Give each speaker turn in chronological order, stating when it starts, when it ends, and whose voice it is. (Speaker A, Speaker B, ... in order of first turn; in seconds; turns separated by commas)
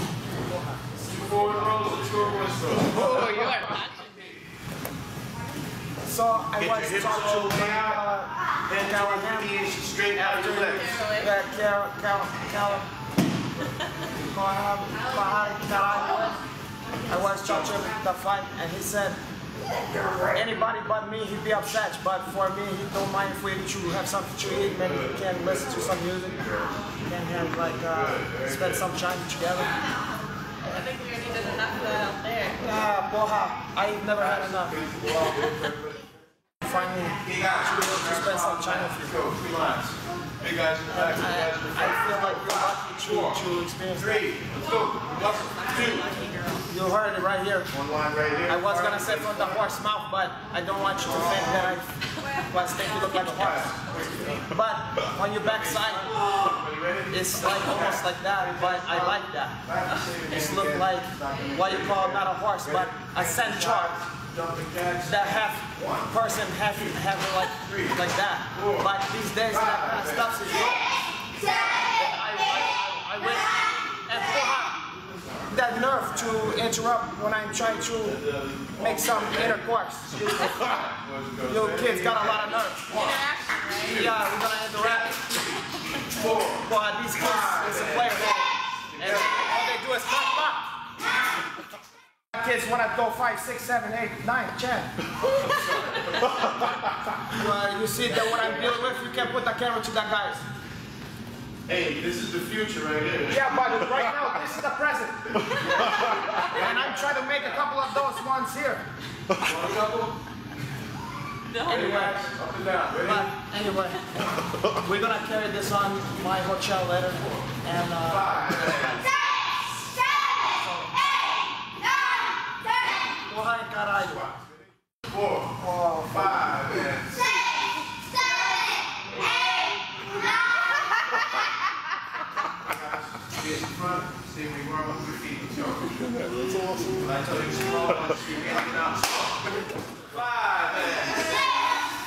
Speaker A: 0.5-0.9, Speaker B: 0.9-4.4, Speaker C: 2.9-4.0, Speaker A: 6.0-12.9, Speaker B: 6.5-8.1, Speaker B: 8.7-11.0, Speaker C: 10.8-11.3, Speaker A: 14.1-16.4, Speaker A: 17.1-19.2, Speaker A: 20.1-26.4, Speaker B: 24.4-26.7, Speaker A: 27.0-29.8, Speaker B: 27.3-28.9, Speaker C: 30.6-32.6, Speaker A: 32.6-34.8, Speaker B: 34.2-36.1, Speaker A: 36.6-39.2, Speaker B: 37.2-43.4, Speaker A: 40.9-44.3, Speaker B: 43.9-46.3, Speaker C: 45.5-46.6, Speaker A: 46.6-47.7, Speaker B: 47.7-49.7, Speaker A: 48.5-56.4, Speaker B: 51.0-51.8, Speaker B: 53.2-54.4, Speaker B: 55.4-66.2, Speaker A: 57.1-59.6, Speaker A: 60.2-64.0, Speaker A: 65.0-70.9, Speaker B: 67.5-68.9, Speaker B: 69.5-70.4, Speaker A: 71.5-74.8, Speaker A: 75.5-80.6, Speaker B: 78.0-84.1, Speaker A: 81.4-82.9, Speaker C: 82.9-84.0, Speaker A: 83.8-85.4, Speaker B: 86.0-88.3, Speaker A: 86.6-90.7, Speaker B: 88.9-89.5, Speaker A: 92.3-94.9, Speaker B: 95.3-96.7, Speaker A: 97.3-100.4, Speaker B: 98.3-99.0, Speaker B: 101.7-103.7, Speaker A: 103.3-108.8, Speaker B: 105.5-107.6, Speaker B: 109.3-110.2, Speaker C: 111.5-111.9, Speaker A: 111.6-112.3, Speaker B: 111.6-113.3, Speaker A: 113.0-119.1, Speaker B: 118.0-119.1, Speaker A: 120.5-120.9, Speaker A: 123.1-124.3, Speaker B: 124.1-127.4, Speaker A: 125.6-126.4, Speaker B: 132.6-136.2, Speaker B: 136.9-141.4